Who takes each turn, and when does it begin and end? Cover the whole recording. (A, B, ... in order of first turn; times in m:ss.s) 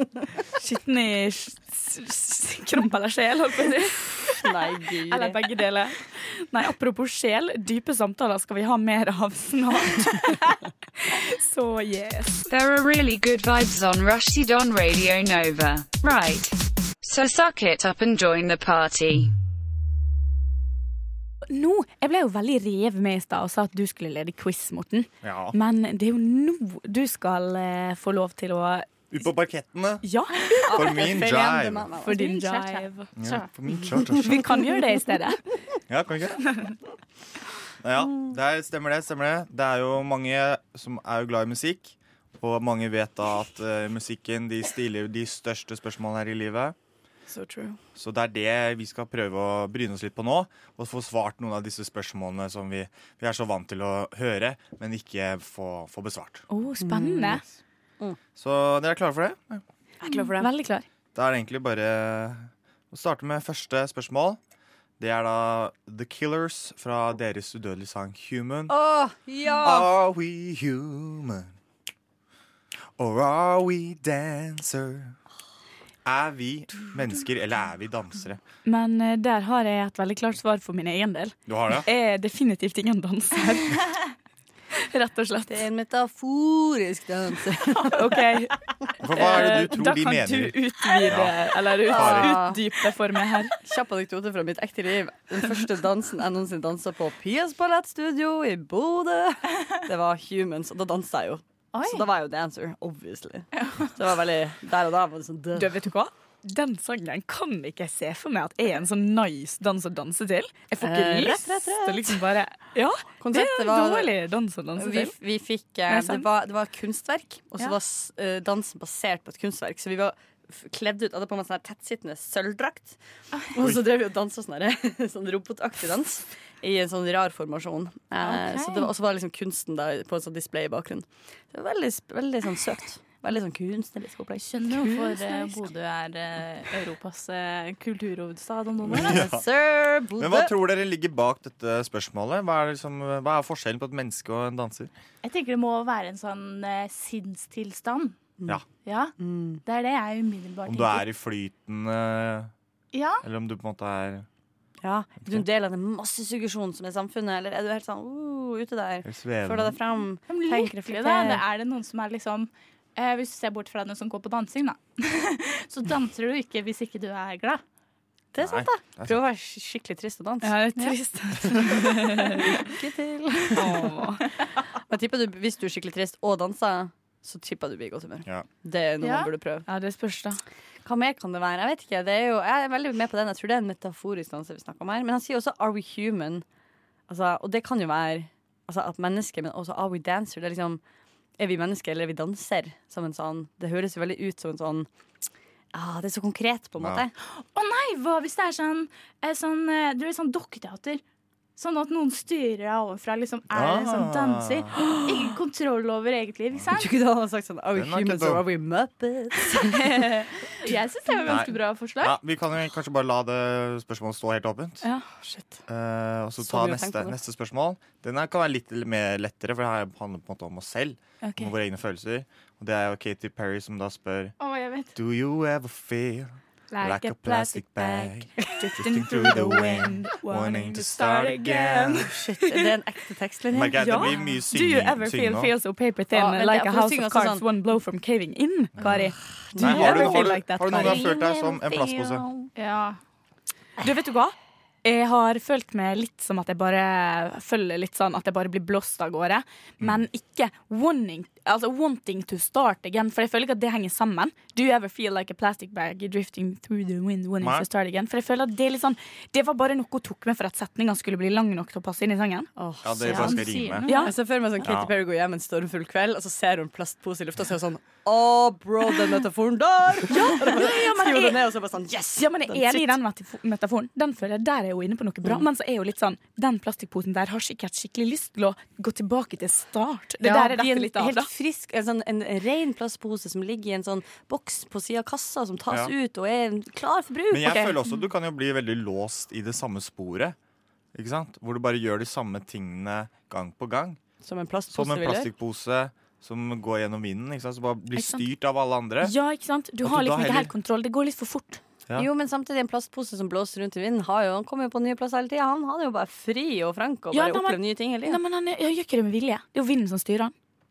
0:00.6-0:04.4 A
0:04.3-0:05.4 B
0:05.1-0:12.5 A
0:12.5-0:19.3 C
0:21.5-0:28.9 A
0:25.2-0:25.6 D
0:29.1-0:30.0 D
0:30.0-0:30.9 A
0:30.6-0:32.4 B
0:30.7-0:31.9 D
0:32.0-0:33.1 A
0:32.1-0:33.4 E
0:33.2-0:34.5 D
0:34.1-0:35.4 A
0:35.9-0:36.6 D
0:37.8-0:46.7 D
0:47.3-0:47.8 B
0:48.0-0:56.4 D
0:56.5-0:57.4 A
0:56.8-0:57.4 B
0:58.4-0:59.6 D
1:00.0-1:00.5 B
1:00.4-1:00.8 A
1:01.1-1:04.4 D
1:05.0-1:08.8 D
1:08.7-1:09.9 B
1:09.6-1:11.5 D
1:13.0-1:15.2 D
1:16.0-1:18.4 D
1:18.6-1:23.9 A
1:21.5-1:21.9 D
1:24.9-1:25.6 A
1:25.5-1:28.2 B
1:27.9-1:28.6 A
1:29.0-1:31.3 D
1:29.1-1:33.5 A
1:31.8-1:32.4 D
1:31.9-1:32.6 B
1:33.6-1:45.8 B
1:41.7-1:42.0 E
1:45.5-1:55.2 A
1:50.8-1:52.2 B
1:53.2-1:54.1 B
1:54.8-2:03.0 B
1:55.9-1:56.3 A
2:03.5-2:14.5 B
2:08.2-2:08.9 E
2:14.4-2:19.4 E
2:14.7-2:15.6 A
2:18.8-2:19.4 D
2:18.9-2:20.5 B
2:20.2-2:24.9 D
2:25.2-2:28.2 E
2:28.8-2:29.1 E
2:29.2-2:29.6 B
2:29.6-2:31.0 E
2:30.6-2:32.5 D
2:32.9-2:33.2 E
2:33.2-2:34.3 D
2:34.8-2:41.4 B
2:39.0-2:39.8 D
2:40.3-2:47.6 E
2:48.3-2:50.6 B
2:48.4-2:49.2 D
2:50.4-2:52.4 A
2:52.4-2:53.9 B
2:53.5-2:54.2 A
2:54.9-2:59.7 B
2:59.0-2:59.3 E
2:59.6-3:00.4 A
3:00.8-3:06.4 B
3:07.1-3:10.8 B
3:11.4-3:14.9 B
3:15.7-3:17.1 B
3:16.8-3:17.0 D
3:17.2-3:21.0 E
3:21.6-3:26.9 E
3:23.5-3:24.7 D
3:26.7-3:30.1 B
3:27.7-3:28.4 D
3:29.8-3:30.2 A
3:30.6-3:32.2 E
3:31.2-3:34.8 D
3:35.2-3:35.6 B
3:35.7-3:44.4 D
3:36.4-3:37.2 B
3:41.2-3:41.5 A
3:44.4-3:44.9 E
3:44.9-3:52.1 D
3:46.7-3:52.7 A
3:52.1-3:54.2 B
3:53.5-3:55.5 D
3:53.8-4:01.0 A
3:56.1-3:57.4 B
3:59.5-4:02.5 B
3:59.6-4:02.2 D
4:02.6-4:03.0 E
4:03.8-4:22.5 A
4:17.4-4:17.6 D
4:22.6-4:33.0 B
4:22.8-4:23.9 D
4:23.0-4:24.0 E
4:23.8-4:24.1 A
4:24.6-4:24.9 D
4:30.1-4:31.4 A
4:32.1-4:41.3 A
4:40.2-4:47.8 B
4:47.3-4:50.4 D
4:50.9-4:54.0 D
4:54.2-4:55.3 B
4:54.7-4:59.1 D
4:57.9-4:58.2 A
4:59.0-5:01.6 A
4:59.8-5:00.5 D
5:02.0-5:08.2 B
5:07.1-5:10.3 A